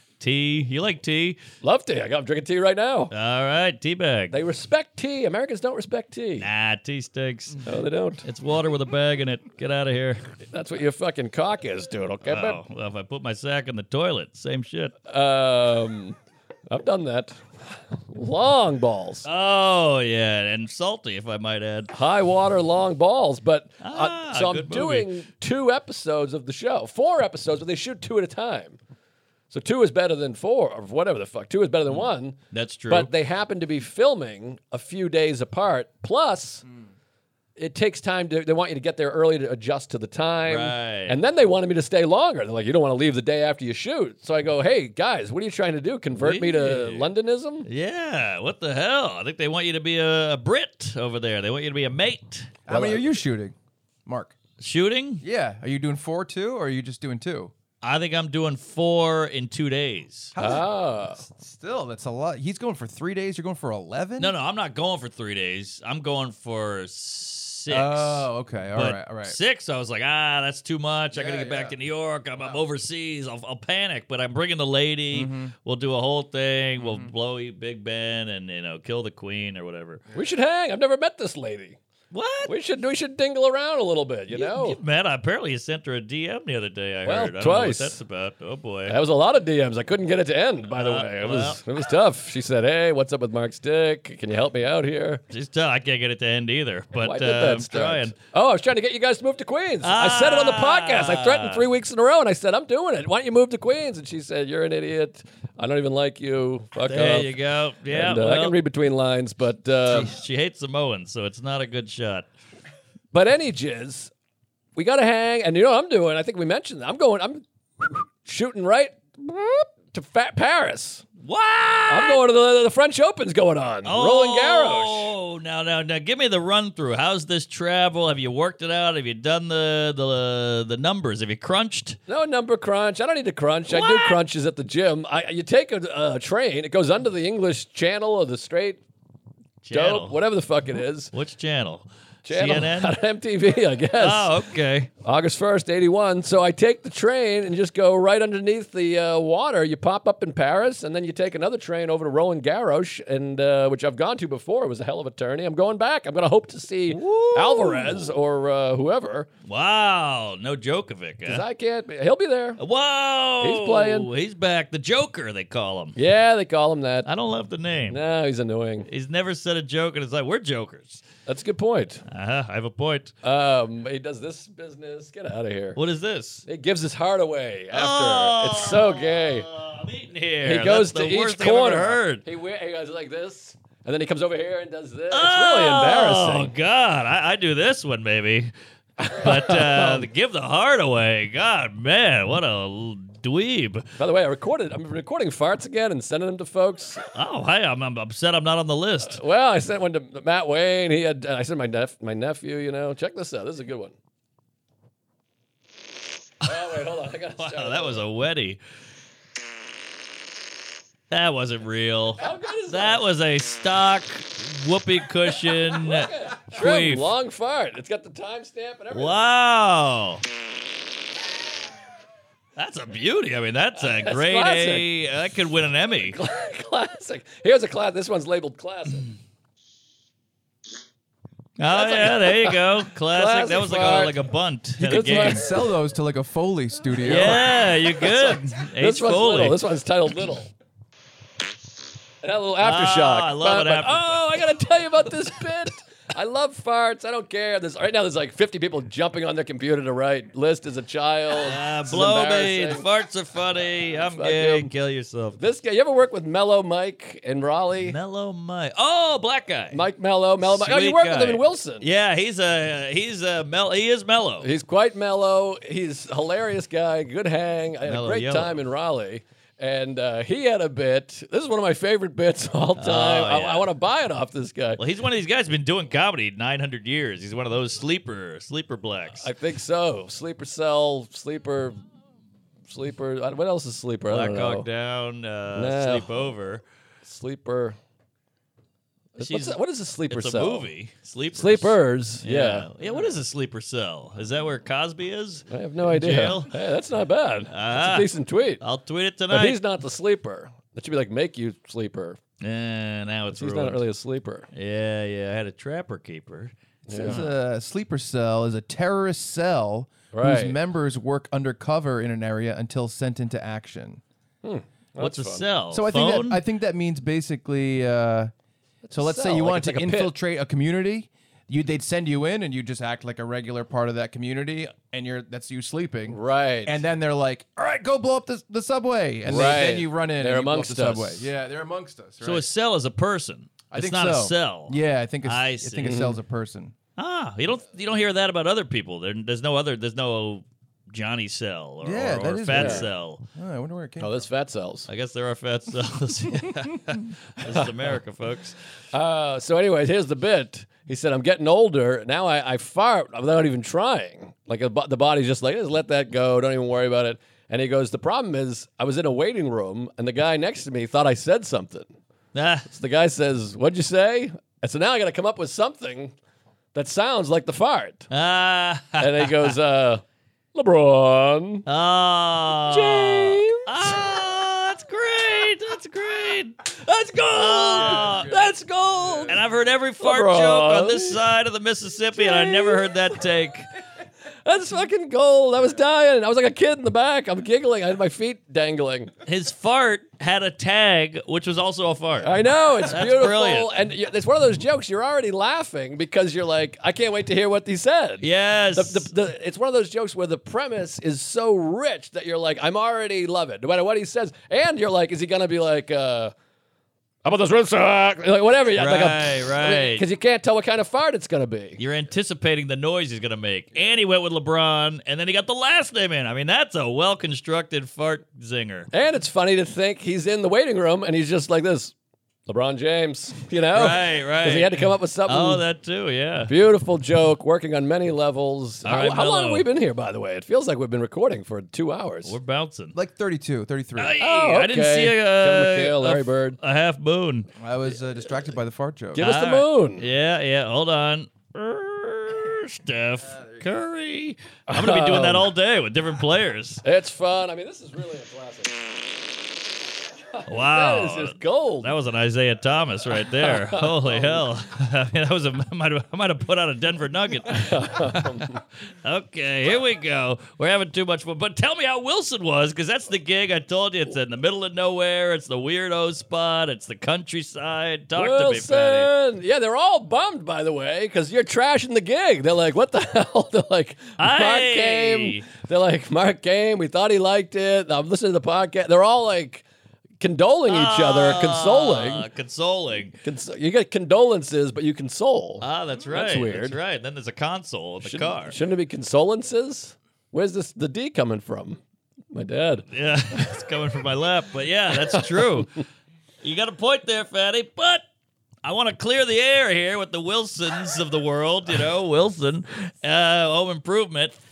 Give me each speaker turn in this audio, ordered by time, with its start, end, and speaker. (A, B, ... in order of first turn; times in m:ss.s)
0:00.2-0:01.4 A
0:01.6-0:03.1 B
0:03.1-0:04.4 A
0:04.3-0:06.5 B
0:06.4-0:07.6 A
0:07.6-0:08.2 B
0:08.2-0:10.2 A
0:10.5-0:12.6 B
0:12.2-0:14.9 A
0:15.1-0:16.2 B
0:16.7-0:19.3 B
0:19.2-0:21.9 A
0:21.9-0:28.8 B
0:23.8-0:25.1 A
0:29.5-0:32.4 B
0:32.5-0:33.1 A
0:32.9-0:36.6 B
0:37.6-0:47.7 B
0:40.5-0:41.2 A
0:46.1-0:47.1 A
0:47.6-0:52.6 A
0:52.6-0:53.5 C
0:52.7-0:53.0 B
0:54.0-0:54.4 C
0:54.6-0:55.2 A
0:55.2-0:57.5 C
0:57.8-1:00.3 A
1:00.3-1:00.6 C
1:00.4-1:01.2 B
1:01.2-1:04.3 C
1:04.2-1:20.0 A
1:07.7-1:09.4 C
1:11.1-1:11.7 C
1:15.1-1:15.5 C
1:16.8-1:17.1 C
1:20.1-1:21.8 B
1:22.1-1:22.5 A
1:22.4-1:24.8 B
1:24.3-1:29.0 A
1:27.0-1:28.0 B
1:28.9-1:35.2 B
1:30.7-1:31.6 A
1:35.3-1:38.1 A
1:37.0-1:47.3 B
1:39.8-1:41.6 A
1:46.8-1:48.6 A
1:47.9-1:50.1 B
1:49.9-1:52.3 A
1:53.1-1:54.1 B
1:54.8-2:01.0 B
2:01.2-2:02.2 A
2:01.9-2:05.1 B
2:03.8-2:12.0 A
2:12.1-2:18.8 B
2:13.7-2:14.2 A
2:19.6-2:20.2 A
2:19.7-2:21.1 B
2:21.1-2:23.0 A
2:22.2-2:24.3 B
2:24.0-2:24.9 A
2:25.0-2:39.3 B
2:36.9-2:38.1 A
2:39.4-2:41.4 A
2:41.2-2:42.6 B
2:42.6-2:46.0 A
2:43.4-2:44.1 B
2:46.0-2:47.1 B
2:47.0-2:48.0 A
2:47.9-2:48.9 B
2:48.9-2:51.0 A
2:51.2-2:52.0 B
2:52.1-2:53.1 A
2:53.2-2:55.8 B
2:55.8-2:56.4 A
2:56.5-2:59.5 B
2:57.7-3:02.2 A
3:00.4-3:06.5 B
3:05.1-3:08.5 A
3:09.0-3:10.1 B
3:09.2-3:13.9 A
3:14.0-3:17.0 B
3:17.1-3:19.2 A
3:19.0-3:23.9 B
3:26.4-3:28.0 B
3:27.4-3:28.6 A
3:31.1-3:37.1 A
3:32.2-3:33.0 B
3:35.6-3:39.2 B
3:38.9-3:40.2 A
3:42.6-3:46.2 A
3:43.8-3:44.9 B
3:46.1-3:49.1 B
3:51.6-3:55.5 A
3:51.7-3:54.1 B
3:54.8-3:57.4 C
3:54.8-3:55.6 B
3:57.0-4:00.5 B
3:57.0-3:59.6 A
4:02.2-4:12.8 B
4:02.6-4:04.2 A
4:11.4-4:15.4 A
4:14.1-4:14.7 B
4:15.4-4:18.0 B
4:17.8-4:19.8 A
4:19.7-4:21.8 B
4:20.4-4:24.5 A
4:24.4-4:34.8 B
4:27.8-4:28.6 A
4:32.8-4:33.7 A
4:34.8-4:39.3 A
4:39.2-4:41.8 B
4:42.7-4:44.7 B
4:44.1-4:46.6 A
4:45.5-4:46.3 B
4:47.0-4:47.8 B
4:49.2-4:50.7 B
4:49.2-4:56.5 A
4:51.3-4:52.7 B
4:55.5-4:58.6 B
4:57.5-4:58.1 A
4:58.6-4:59.6 A
4:59.3-5:02.2 B
5:02.4-5:03.8 A
5:03.3-5:04.5 B
5:04.5-5:07.3 A
5:06.9-5:07.2 B
5:06.9-5:14.0 C
5:10.1-5:10.6 B
5:14.4-5:15.4 B
5:15.0-5:16.4 A
5:15.7-5:18.3 C
5:18.8-5:20.1 B
5:18.9-5:32.5 C
5:26.1-5:26.8 B
5:29.2-5:31.3 B
5:32.2-5:36.0 A
5:33.7-5:36.7 C
5:35.8-5:36.2 B
5:37.0-5:43.2 A
5:41.8-5:44.2 C
5:42.5-5:42.8 B
5:44.0-5:44.9 B
5:44.9-5:48.6 A
5:47.4-5:47.7 B
5:48.9-6:01.9 B
6:02.3-6:02.7 A
6:02.6-6:06.1 B
6:06.7-6:08.1 B
6:08.1-6:09.5 A
6:09.0-6:10.0 B
6:10.5-6:11.6 B
6:11.7-6:16.6 A
6:12.7-6:14.0 B
6:16.7-6:19.4 B
6:17.3-6:18.5 A
6:19.3-6:23.7 A
6:20.0-6:21.2 B
6:22.2-6:22.8 B
6:24.4-6:29.1 B
6:29.2-6:33.7 A
6:32.2-6:46.3 B
6:38.2-6:39.1 A
6:47.2-6:51.8 B
6:48.8-6:50.0 A
6:51.8-6:58.9 A
6:58.9-7:01.9 B
7:02.5-7:05.6 B
7:03.7-7:06.5 A
7:06.5-7:12.3 B
7:08.8-7:09.6 A
7:12.2-7:12.9 A
7:12.9-7:14.2 C
7:14.0-7:17.5 A
7:14.2-7:16.6 B
7:17.6-7:19.3 C
7:19.1-7:20.0 B
7:19.2-7:26.8 A
7:24.7-7:25.5 B
7:26.8-7:29.3 B
7:30.3-7:31.9 B
7:30.5-7:38.4 A
7:33.4-7:34.4 B
7:37.5-7:38.6 B
7:39.0-7:49.1 A
7:48.2-7:59.6 B
7:54.2-7:55.4 A
8:00.2-8:02.2 B
8:00.7-8:03.2 A
8:03.2-8:06.8 B
8:05.6-8:08.6 A
8:08.0-8:11.8 B
8:12.3-8:12.9 B
8:12.9-8:15.8 A
8:16.4-8:18.0 A
8:18.6-8:24.4 A